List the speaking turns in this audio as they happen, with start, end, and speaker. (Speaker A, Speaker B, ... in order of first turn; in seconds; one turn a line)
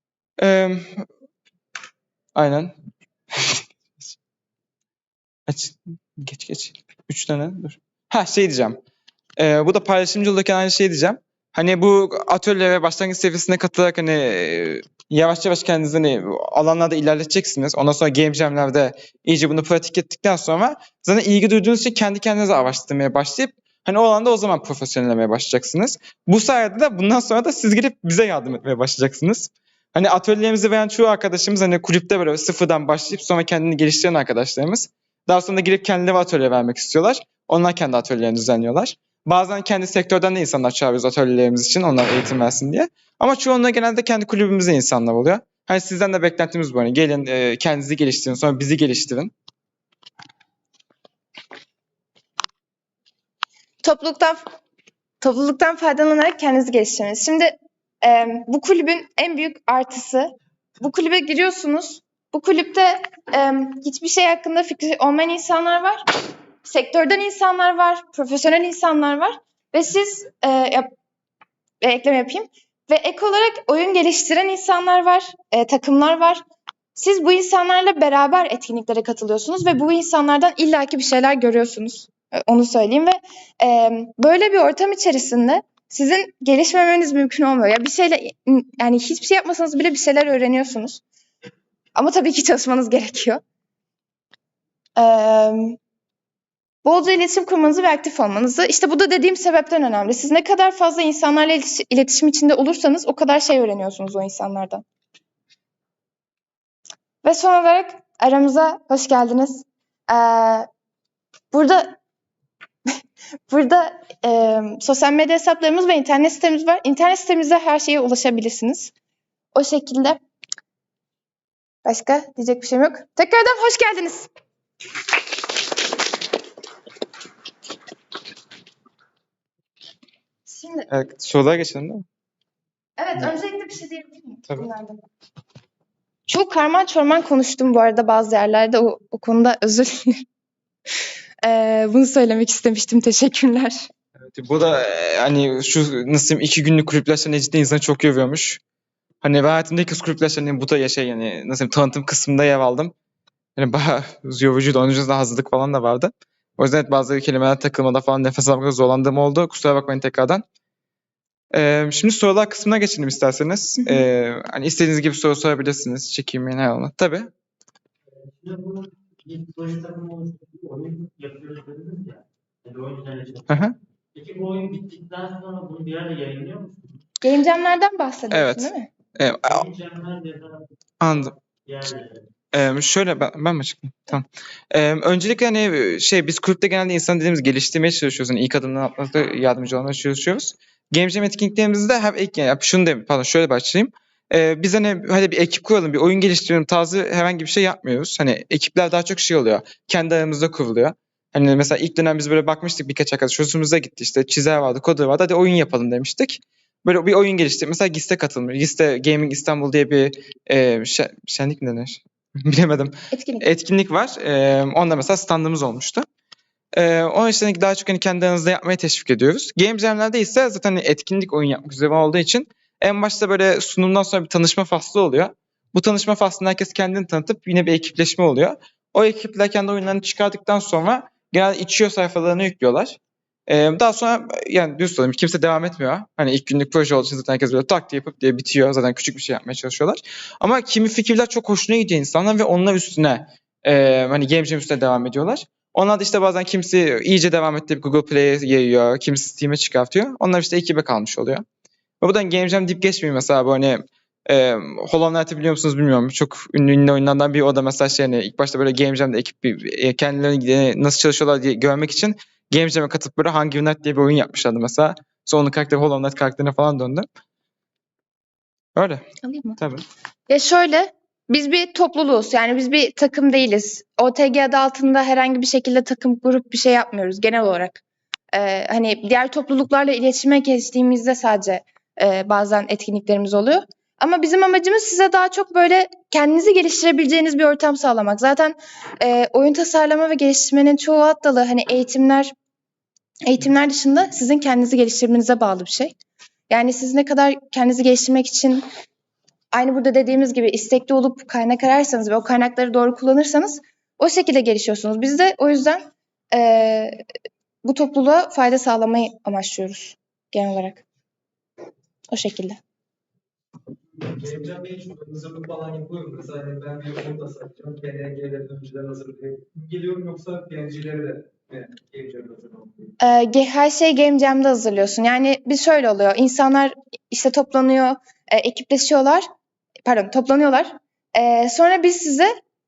Speaker A: 0.4-1.1
Speaker A: 2.3-2.7
Speaker A: 3.3-4.2
Speaker A: 5.5-8.8
Speaker A: 9.4-49.3
Speaker B: 53.8-54.5
Speaker B: 55.2-66.0
Speaker B: 66.6-70.9
Speaker B: 71.8-76.4
Speaker B: 77.0-91.0
Speaker B: 91.9-93.4
Speaker B: 95.0-95.8
Speaker B: 96.8-104.8
Speaker B: 107.2-110.7
Speaker B: 111.5-112.0
Speaker B: 113.5-118.9
Speaker B: 119.5-120.2
Speaker B: 121.8-124.3
Speaker B: 130.4-130.9
Speaker A: 130.9-132.1
Speaker B: 133.0-135.0
Speaker B: 136.3-140.2
Speaker B: 141.4-143.9
Speaker A: 144.3-148.6
Speaker A: 149.2-152.9
Speaker A: 153.6-160.4
Speaker A: 161.5-167.3
Speaker C: 168.1-177.0
Speaker A: 173.5-173.7
Speaker B: 177.2-178.9
Speaker A: 178.3-179.6
Speaker C: 179.4-182.2
Speaker A: 181.0-181.3
Speaker A: 182.5-216.1
Speaker B: 213.1-213.5
Speaker A: 216.7-251.4
Speaker A: 252.0-267.1
Speaker A: 268.7-269.0
Speaker B: 269.2-269.6
Speaker A: 269.6-269.8
Speaker B: 270.3-277.8
Speaker B: 278.3-292.3
Speaker B: 293.2-295.9
Speaker B: 296.5-298.6
Speaker B: 299.5-307.0
Speaker B: 307.6-310.8
Speaker B: 312.1-312.6
Speaker D: 314.0-322.9
Speaker B: 323.0-329.3
Speaker B: 329.8-332.3